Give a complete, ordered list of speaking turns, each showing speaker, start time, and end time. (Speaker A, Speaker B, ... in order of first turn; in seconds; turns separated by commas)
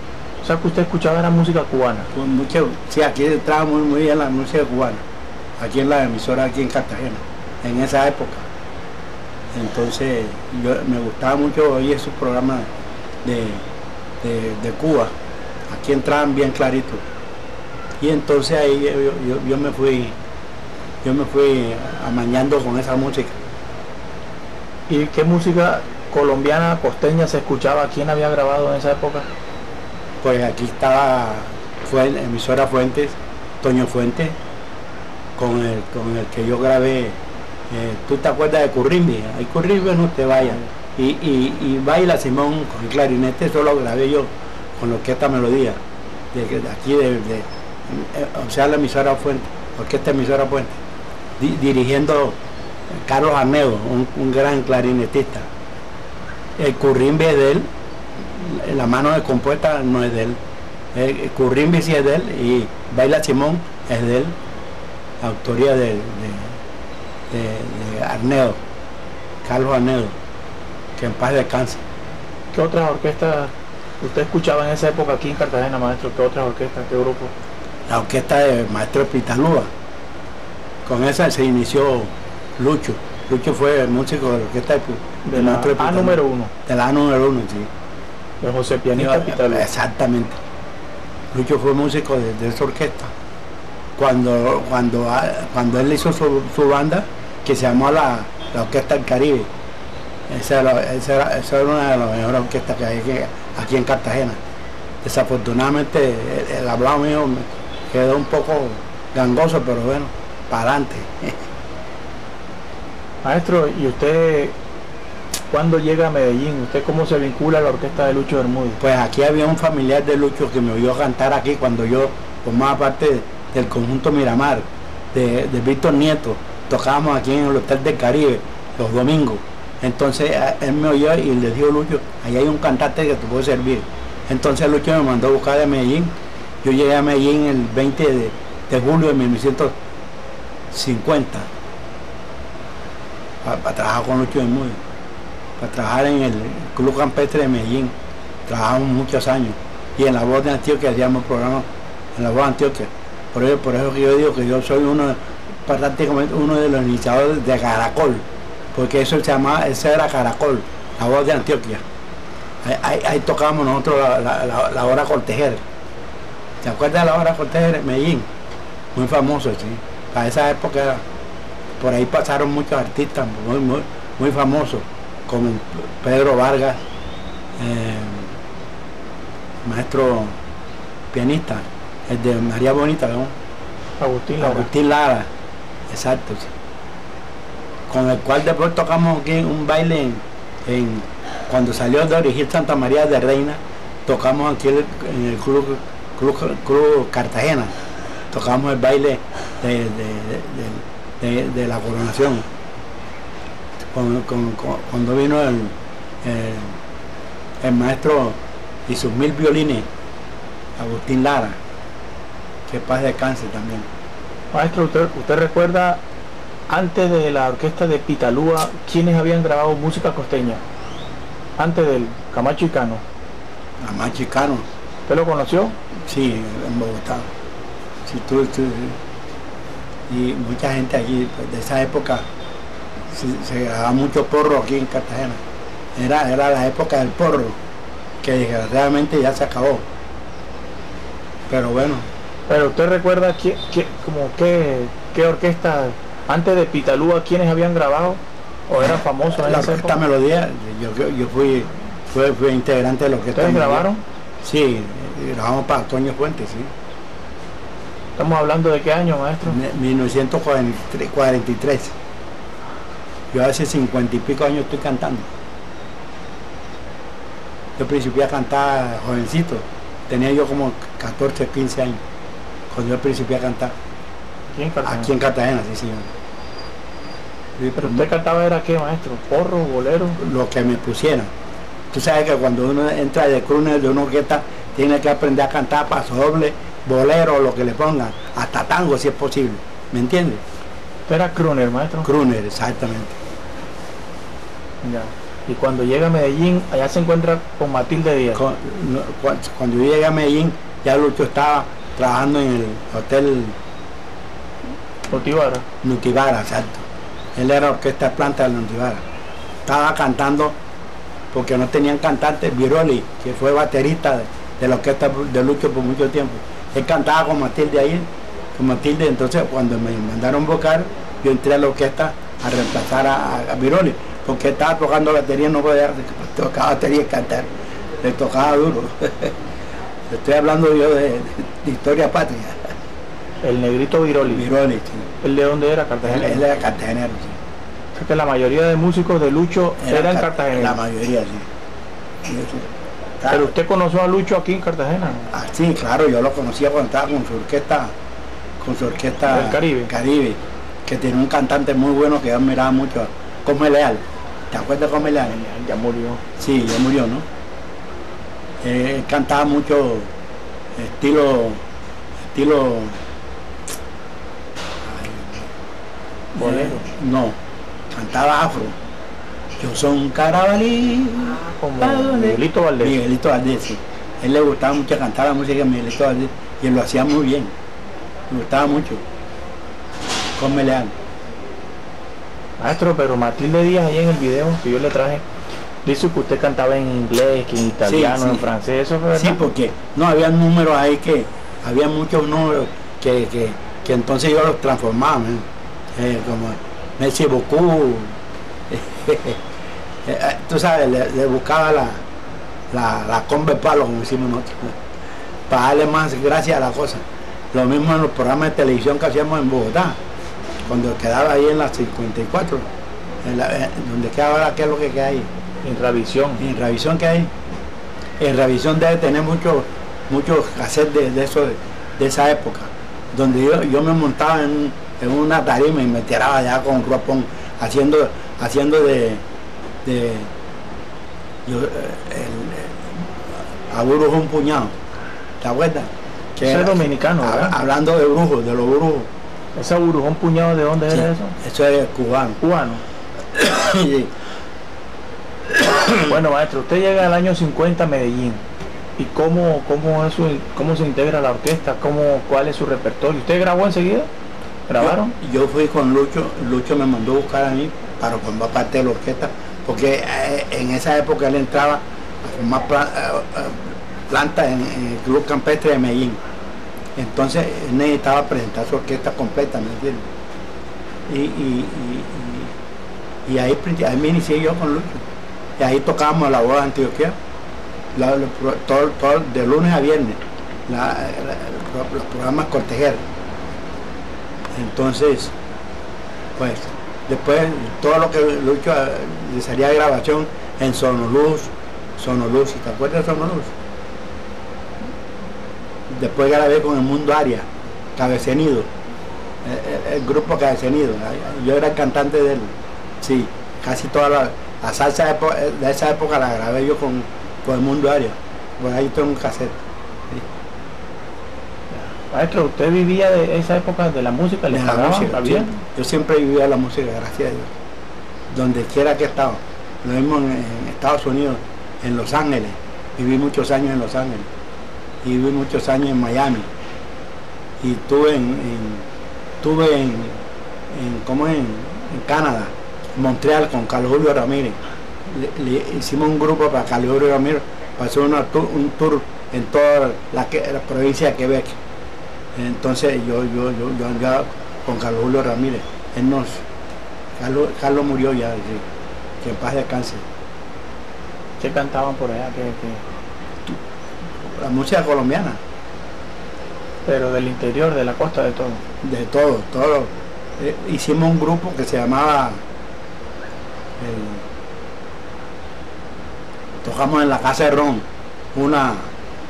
Speaker A: 0.4-2.1, Speaker B: 2.1-5.0, Speaker B: 5.6-8.4, Speaker B: 9.5-12.7, Speaker B: 13.2-13.6, Speaker B: 14.2-15.1, Speaker B: 15.7-17.0, Speaker B: 18.0-20.1, Speaker B: 21.0-23.4, Speaker A: 24.9-29.3, Speaker B: 30.2-34.4, Speaker B: 35.4-37.2, Speaker B: 37.7-45.8, Speaker B: 46.3-50.8, Speaker B: 51.4-52.4, Speaker B: 53.1-55.5, Speaker B: 56.6-57.6, Speaker B: 58.3-60.4, Speaker B: 60.9-64.3, Speaker B: 65.2-66.5, Speaker B: 67.3-68.6, Speaker B: 69.4-70.1, Speaker B: 71.0-71.8, Speaker A: 72.5-77.3, Speaker B: 77.9-79.7, Speaker B: 80.9-87.7, Speaker A: 85.2-86.5, Speaker A: 88.4-89.7, Speaker B: 89.0-90.4, Speaker B: 91.3-93.1, Speaker B: 94.0-99.5, Speaker B: 100.3-104.4, Speaker B: 105.0-111.4, Speaker A: 113.2-114.5, Speaker A: 115.5-118.8, Speaker B: 118.8-136.1, Speaker B: 136.6-139.7, Speaker B: 140.7-141.5, Speaker B: 143.4-144.8, Speaker B: 145.6-147.9, Speaker B: 148.5-151.7, Speaker B: 152.2-158.2, Speaker B: 158.7-161.8, Speaker B: 162.6-165.6, Speaker B: 166.6-168.2, Speaker B: 168.9-171.0, Speaker B: 171.8-176.8, Speaker B: 177.6-178.3, Speaker B: 179.6-180.3, Speaker B: 181.1-183.3, Speaker A: 184.0-184.7, Speaker B: 184.4-185.3, Speaker B: 185.9-186.5, Speaker B: 187.9-197.7, Speaker B: 198.3-202.4, Speaker B: 203.9-206.7, Speaker B: 207.6-208.4, Speaker B: 208.9-209.8, Speaker B: 210.8-211.6, Speaker B: 212.7-213.9, Speaker A: 214.5-216.0, Speaker A: 216.7-220.6, Speaker A: 221.6-223.0, Speaker B: 223.8-224.7, Speaker A: 225.1-225.8, Speaker B: 226.1-227.2, Speaker B: 228.1-229.0, Speaker B: 230.1-232.2, Speaker B: 233.1-235.4, Speaker B: 236.0-237.6, Speaker B: 238.2-239.8, Speaker B: 241.5-242.1, Speaker A: 242.5-250.0, Speaker B: 248.8-253.9, Speaker A: 253.3-254.0, Speaker B: 254.4-256.7, Speaker A: 258.2-259.6, Speaker B: 259.4-261.9, Speaker B: 263.3-265.3, Speaker B: 267.8-272.0, Speaker B: 272.7-273.7, Speaker A: 274.5-275.1, Speaker B: 274.8-276.1, Speaker B: 277.6-278.1, Speaker A: 277.8-280.2, Speaker B: 280.2-281.3, Speaker B: 281.9-290.4, Speaker A: 291.1-292.1, Speaker B: 292.0-293.1, Speaker A: 294.8-298.4, Speaker B: 298.3-303.6, Speaker A: 305.1-305.6, Speaker B: 305.8-306.8, Speaker B: 307.4-309.0, Speaker B: 309.7-310.5, Speaker B: 311.3-318.0, Speaker B: 318.6-327.5, Speaker B: 328.0-329.4, Speaker B: 330.1-332.7, Speaker A: 333.4-334.5, Speaker B: 334.3-335.1, Speaker A: 335.2-336.5, Speaker B: 336.0-337.4, Speaker A: 337.9-340.8, Speaker B: 339.8-341.5, Speaker B: 342.3-342.7, Speaker B: 343.2-343.5, Speaker A: 343.3-345.3, Speaker B: 345.3-347.9, Speaker B: 348.6-355.4, Speaker A: 349.3-349.9, Speaker A: 355.2-356.2, Speaker B: 356.4-357.2, Speaker B: 358.6-360.1, Speaker B: 360.8-361.6, Speaker B: 362.3-363.0, Speaker B: 364.8-365.5, Speaker A: 366.4-366.8, Speaker B: 366.4-367.4, Speaker B: 367.9-368.8, Speaker B: 369.6-377.5, Speaker A: 371.6-373.0, Speaker B: 378.3-379.0, Speaker B: 380.4-380.9, Speaker A: 382.6-385.2, Speaker A: 385.9-389.4, Speaker B: 387.8-388.5, Speaker B: 389.1-395.4, Speaker B: 396.0-398.1, Speaker B: 398.7-399.4, Speaker B: 400.1-402.0, Speaker B: 402.7-404.8, Speaker B: 405.5-407.0, Speaker B: 407.5-410.0, Speaker B: 410.6-412.7, Speaker B: 413.2-415.3, Speaker A: 415.6-416.5, Speaker B: 416.4-417.3, Speaker B: 418.2-429.2, Speaker B: 429.8-430.3, Speaker B: 431.4-432.9, Speaker B: 433.7-434.7, Speaker B: 435.4-439.1, Speaker A: 436.4-437.6, Speaker A: 439.6-441.4, Speaker B: 440.9-442.4, Speaker A: 442.4-442.8, Speaker B: 443.3-444.1, Speaker B: 445.6-446.0, Speaker A: 445.9-448.4, Speaker A: 449.0-454.1, Speaker A: 454.7-455.1, Speaker B: 454.8-466.2, Speaker B: 467.0-470.0, Speaker B: 471.1-472.5, Speaker B: 473.3-475.0, Speaker B: 475.6-477.1, Speaker B: 477.9-483.0, Speaker B: 484.6-485.3, Speaker B: 486.4-493.5, Speaker B: 495.9-498.7, Speaker B: 499.4-510.2, Speaker A: 511.7-515.5, Speaker B: 514.5-517.5, Speaker B: 518.3-524.3, Speaker B: 525.0-526.5, Speaker B: 527.6-528.9, Speaker B: 529.4-530.2, Speaker B: 530.7-534.6, Speaker B: 535.1-541.6, Speaker B: 542.4-546.4, Speaker B: 547.2-548.6, Speaker B: 549.2-550.0, Speaker A: 551.4-552.8, Speaker B: 554.2-555.4, Speaker A: 556.9-558.6, Speaker B: 558.8-562.4, Speaker B: 563.8-564.2, Speaker B: 566.6-568.9